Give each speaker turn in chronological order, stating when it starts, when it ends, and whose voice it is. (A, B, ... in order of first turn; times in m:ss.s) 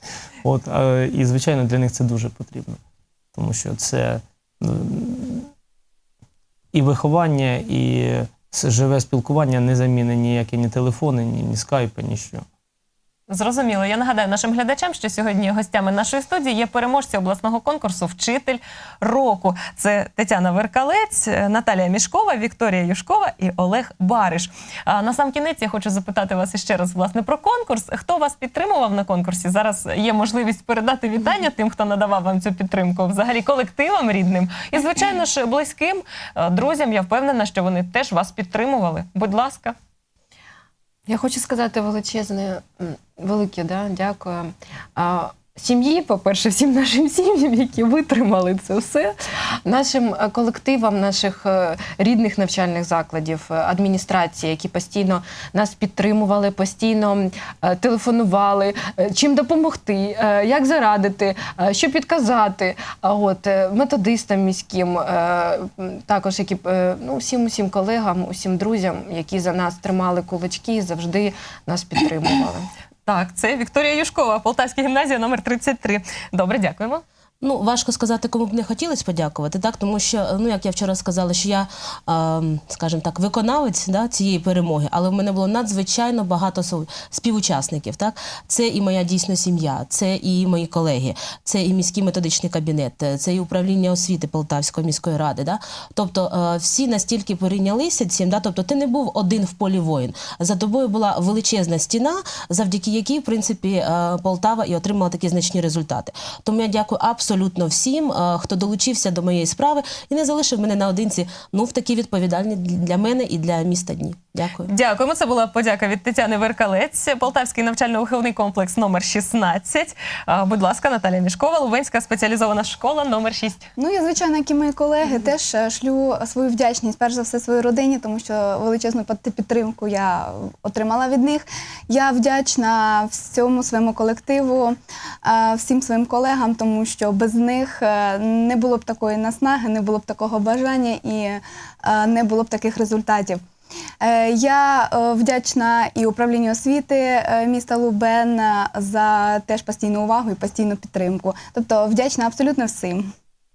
0:00.4-0:02.8 A
0:03.3-0:05.5 A
0:06.7-0:12.4 A
0:13.3-0:39.8 B
0:41.1-1:12.7 C
1:13.0-1:17.0 B
1:17.4-1:54.7 D
1:54.6-2:03.6 B
2:03.8-2:23.4 E
2:24.0-2:33.1 E